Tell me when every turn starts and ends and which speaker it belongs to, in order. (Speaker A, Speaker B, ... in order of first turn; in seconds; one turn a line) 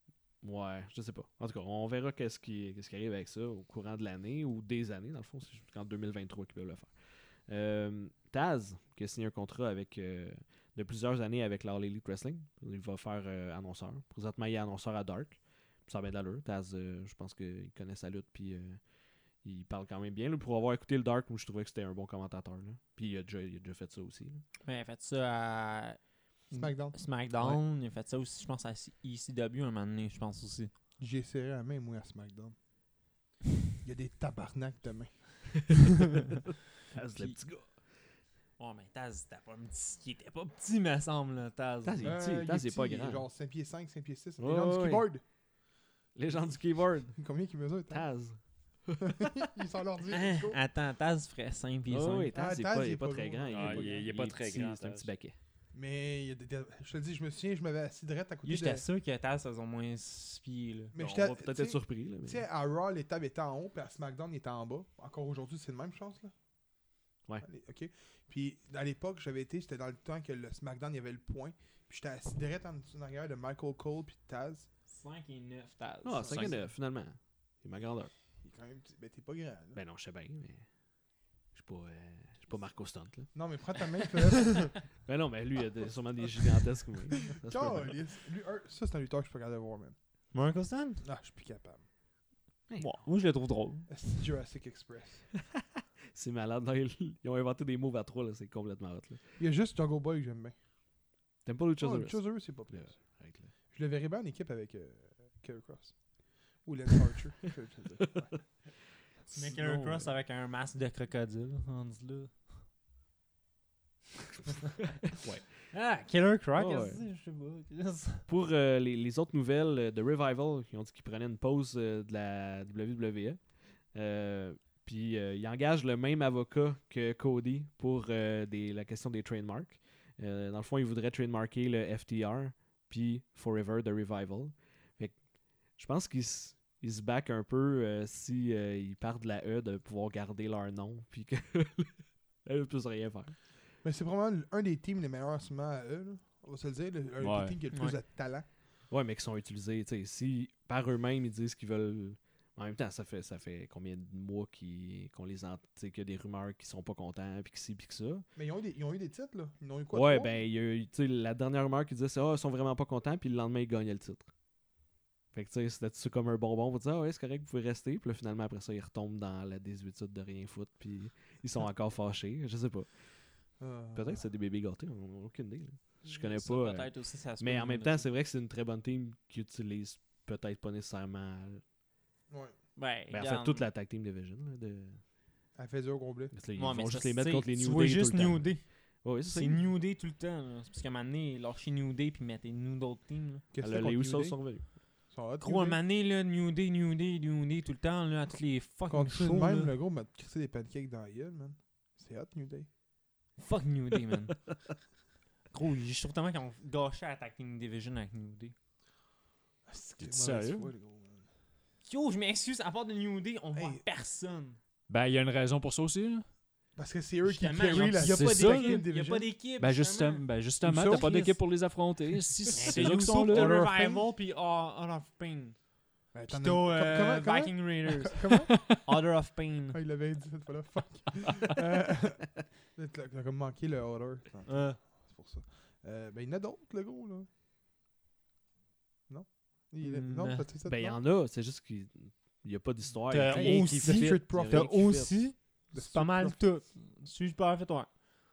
Speaker A: 0.4-7.0
Speaker A: 7.5-18.8
Speaker A: 19.4-24.4
Speaker B: 24.6-30.7
Speaker C: 26.5-27.6
Speaker C: 31.0-32.5
Speaker C: 33.8-35.6
Speaker A: 36.9-37.9
Speaker B: 37.1-37.4
Speaker B: 38.6-42.1
Speaker A: 41.9-43.2
Speaker C: 42.0-45.2
Speaker A: 44.4-45.1
Speaker A: 46.1-47.2
Speaker C: 46.3-46.6
Speaker C: 47.1-48.0
Speaker A: 47.9-49.1
Speaker C: 49.1-50.6
Speaker B: 50.1-52.3
Speaker A: 51.9-55.4
Speaker C: 52.3-54.0
Speaker D: 53.5-55.1
Speaker C: 55.7-58.9
Speaker B: 58.5-61.0
Speaker C: 60.9-66.3
Speaker A: 61.0-62.5
Speaker C: 67.4-74.7
Speaker B: 74.9-76.6
Speaker A: 76.0-78.1
Speaker D: 76.3-76.6
Speaker C: 78.4-79.8
Speaker A: 79.8-80.7
Speaker A: 81.5-83.3
Speaker C: 83.3-84.8
Speaker A: 85.0-88.0
Speaker C: 87.3-90.0
Speaker B: 90.3-91.0
Speaker C: 91.0-91.8
Speaker A: 92.7-93.0
Speaker B: 92.8-93.9
Speaker C: 93.9-95.3
Speaker A: 96.1-99.2
Speaker C: 99.4-100.6
Speaker A: 101.5-103.5
Speaker C: 101.8-103.0
Speaker C: 103.7-106.0
Speaker C: 106.6-108.4
Speaker A: 108.0-108.4
Speaker B: 109.3-112.5
Speaker A: 109.3-110.1
Speaker A: 115.1-115.5
Speaker B: 115.7-118.3
Speaker A: 116.6-117.0
Speaker A: 118.3-143.4
Speaker C: 143.8-148.5
Speaker D: 147.2-147.6
Speaker A: 148.9-158.2
Speaker C: 158.4-160.3
Speaker A: 159.9-164.3
Speaker A: 165.3-173.3
Speaker C: 173.6-174.2
Speaker A: 173.9-181.6
Speaker B: 176.0-178.1
Speaker C: 182.3-182.6
Speaker B: 182.8-183.7
Speaker A: 183.1-185.0
Speaker C: 185.6-186.3
Speaker A: 186.3-189.7
Speaker B: 186.6-193.4
Speaker C: 193.5-195.8
Speaker A: 193.6-194.7
Speaker B: 195.4-199.7
Speaker C: 198.9-202.7
Speaker B: 203.4-204.4
Speaker B: 205.5-208.6
Speaker C: 209.7-211.3
Speaker D: 210.0-210.7
Speaker B: 211.8-214.6
Speaker C: 213.6-213.8
Speaker D: 214.9-216.3
Speaker C: 216.8-219.3
Speaker B: 217.3-220.3
Speaker D: 217.9-218.9
Speaker D: 219.6-223.6
Speaker C: 220.6-221.3
Speaker B: 220.9-221.4
Speaker B: 222.5-225.6
Speaker C: 222.7-224.1
Speaker C: 226.1-228.5
Speaker B: 226.3-229.8
Speaker C: 229.7-237.3
Speaker B: 234.5-234.8
Speaker C: 239.1-241.0
Speaker B: 239.8-240.5
Speaker A: 240.7-245.3
Speaker B: 243.1-248.0
Speaker C: 243.3-244.8
Speaker C: 245.7-246.4